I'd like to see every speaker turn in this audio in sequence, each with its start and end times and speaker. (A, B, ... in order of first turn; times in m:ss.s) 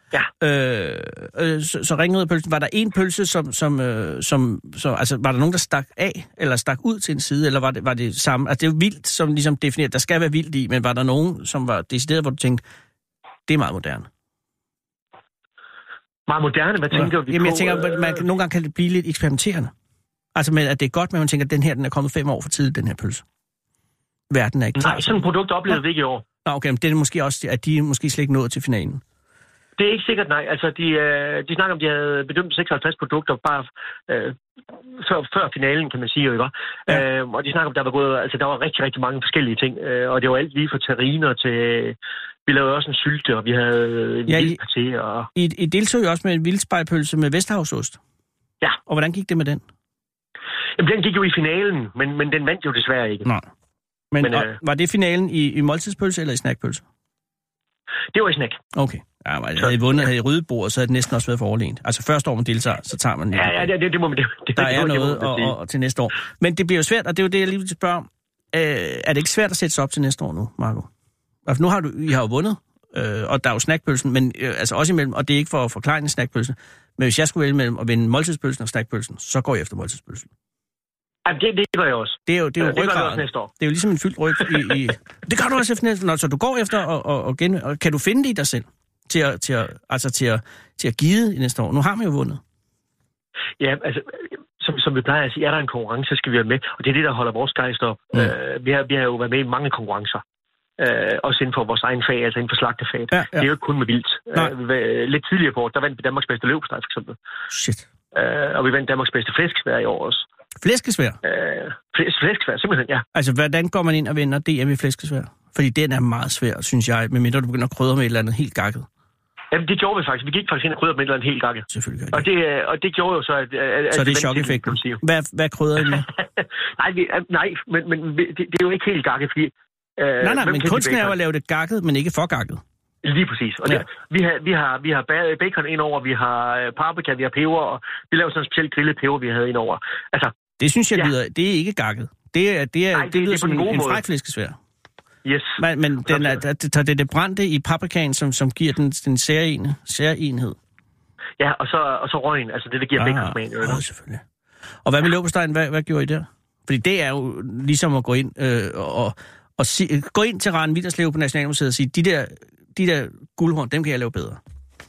0:00.4-0:12.6 A
0:13.5-0:14.1 A
0:16.3-0:18.2 B
0:16.9-0:19.7 A
0:20.4-0:23.2 A
0:24.3-0:25.2 A
0:24.8-0:26.2 B
0:26.4-0:29.0 A
0:29.8-0:34.4 B
0:34.9-0:45.3 B
0:44.3-0:44.6 A
0:45.4-0:48.0 A
0:48.9-0:49.6 A
0:50.8-0:53.3 B
0:54.1-0:56.8 A
0:54.2-0:54.5 B
0:58.1-0:58.6 B
0:58.8-1:03.7 A
1:03.3-1:05.5 B
1:04.6-1:10.9 A
1:11.5-1:20.3 A
1:21.3-1:23.5 B
1:22.3-1:32.4 A
1:33.6-1:40.2 B
1:40.8-1:47.2 B
1:43.1-1:43.5 A
1:47.5-1:47.9 A
1:48.1-1:50.3 B
1:50.6-1:51.2 A
1:51.2-1:53.0 B
1:53.2-1:58.9 A
1:59.5-2:05.0 B
2:01.7-2:02.3 A
2:03.9-2:06.1 A
2:06.8-2:11.2 B
2:10.2-2:12.6 A
2:13.0-2:20.4 B
2:20.6-2:24.6 A
2:22.9-2:24.0 B
2:25.2-2:26.4 B
2:25.6-2:30.6 A
2:31.4-2:33.8 B
2:33.0-2:34.2 A
2:34.8-2:44.4 A